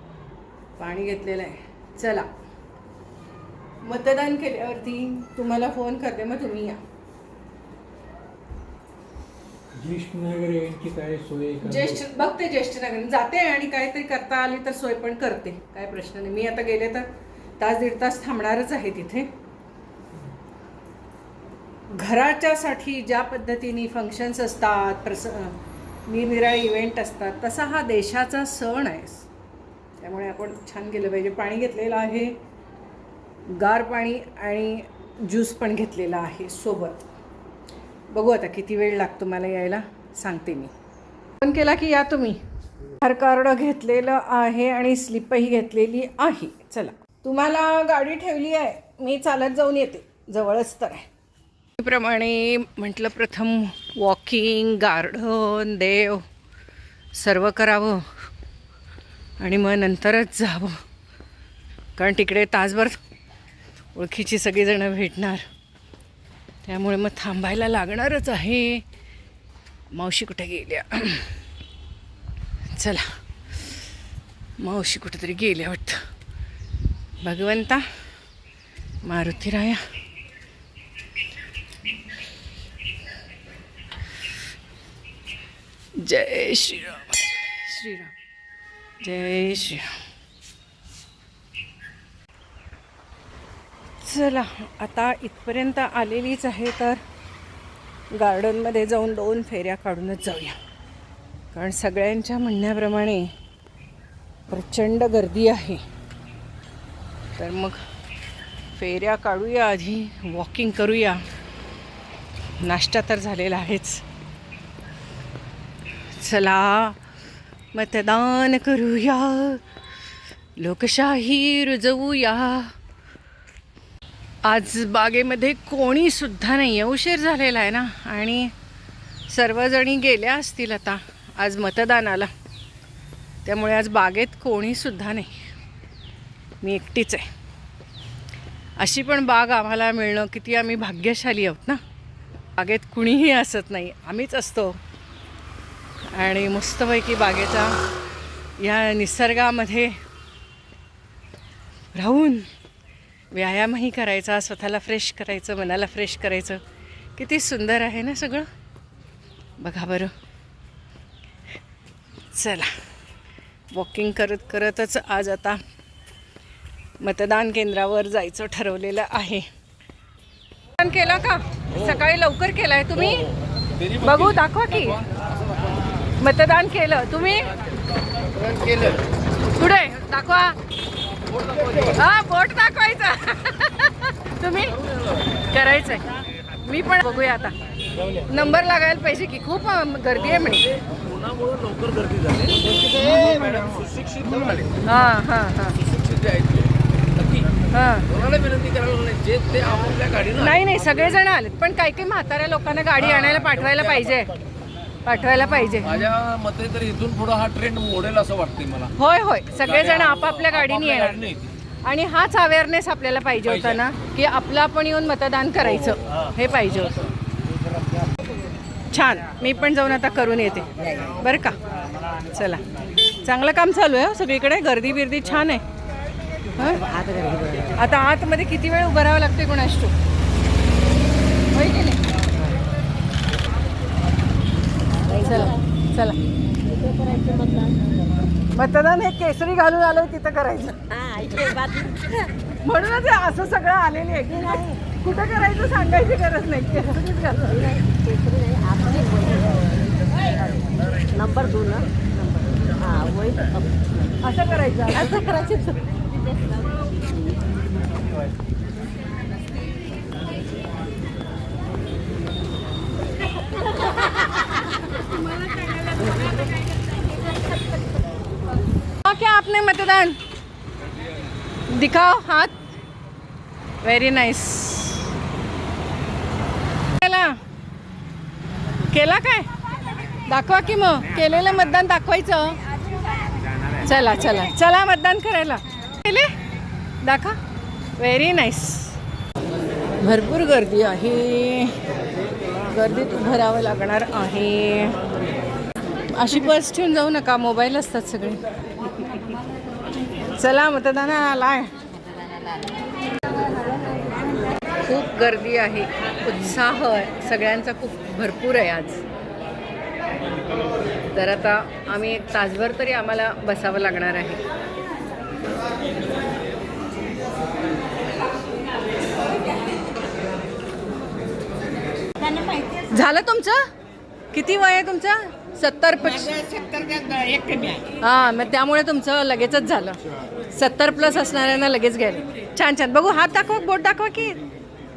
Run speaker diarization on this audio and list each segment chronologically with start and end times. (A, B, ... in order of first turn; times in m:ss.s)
0:00.8-0:02.3 A
0:03.8-0:06.8 A
0:09.8-0:12.0 B
0:11.6-0:17.1 A
0:17.6-0:19.3 A
0:21.9-0:29.3 A
0:30.0-0:32.4 A
0:33.5-0:37.0 A
0:38.1-0:40.7 A
0:41.4-0:42.4 A
0:43.0-0:51.1 A
0:51.8-0:56.2 A
0:57.1-0:58.1 A
0:59.4-1:00.8 A
1:02.0-1:03.0 A
1:03.9-1:05.4 A
1:06.6-1:08.8 A
1:09.9-1:11.3 A
1:12.7-1:13.1 A
1:14.6-1:16.0 A
1:17.2-1:17.8 A
1:19.0-1:19.8 A
1:26.0-1:28.1 A
1:29.0-1:30.0 A
1:34.0-1:37.0 A
1:38.1-1:40.6 A
1:41.5-1:43.3 A
1:44.5-1:45.8 A
1:47.4-1:47.8 A
1:48.7-1:51.2 A
1:52.6-1:54.0 A
1:56.1-1:57.0 A
1:57.7-1:59.6 A
2:00.6-2:02.7 A
2:04.4-2:08.5 A
2:09.3-2:12.3 A
2:13.4-2:15.5 A
2:16.6-2:17.3 A
2:18.8-2:21.8 A
2:22.6-2:24.8 A
2:26.1-2:27.8 A
2:28.6-2:30.0 A
2:31.9-2:32.5 A
2:33.3-2:36.6 A
2:37.2-2:38.5 A
2:39.6-2:40.1 A
2:42.3-2:42.7 A
2:43.7-2:45.6 A
2:47.0-2:49.5 A
2:50.8-2:53.3 A
2:53.8-2:54.2 C
2:53.9-2:55.0 A
2:56.2-2:57.6 A
2:58.3-2:59.0 C
2:59.5-3:00.6 A
3:01.3-3:02.0 C
3:01.9-3:06.1 A
3:06.6-3:07.6 A
3:08.2-3:10.8 A
3:10.8-3:14.8 C
3:14.8-3:15.8 A
3:15.8-3:17.6 C
3:17.7-3:18.1 A
3:18.1-3:20.4 C
3:20.3-3:24.3 A
3:25.0-3:26.1 A
3:26.0-3:28.9 C
3:29.0-3:37.1 A
3:29.8-3:31.2 C
3:38.9-3:41.6 A
3:42.3-3:42.6 A
3:43.2-3:45.6 A
3:46.6-3:46.9 A
3:46.8-3:47.7 D
3:47.7-3:49.9 A
3:51.5-3:52.0 A
3:55.0-3:55.5 D
3:55.1-3:56.2 A
3:56.6-3:58.2 D
3:58.5-4:01.0 A
4:00.9-4:02.3 D
4:02.6-4:07.8 A
4:04.4-4:04.8 D
4:07.4-4:12.0 D
4:12.5-4:14.1 D
4:14.2-4:15.2 A
4:14.9-4:17.4 D
4:29.0-4:30.2 A
4:31.7-4:32.6 A
4:33.8-4:35.1 A
4:36.9-4:37.4 A
4:38.9-4:39.5 A
4:40.2-4:42.6 A
4:43.8-4:46.4 A
4:47.0-4:47.4 A
4:48.0-4:49.0 A
4:50.0-4:51.8 A
4:52.6-4:55.0 A
4:56.1-4:58.4 A
5:00.2-5:01.8 A
5:04.8-5:09.0 A
5:11.1-5:14.4 A
5:22.4-5:23.6 A
5:24.3-5:30.0 A
5:30.5-5:34.4 A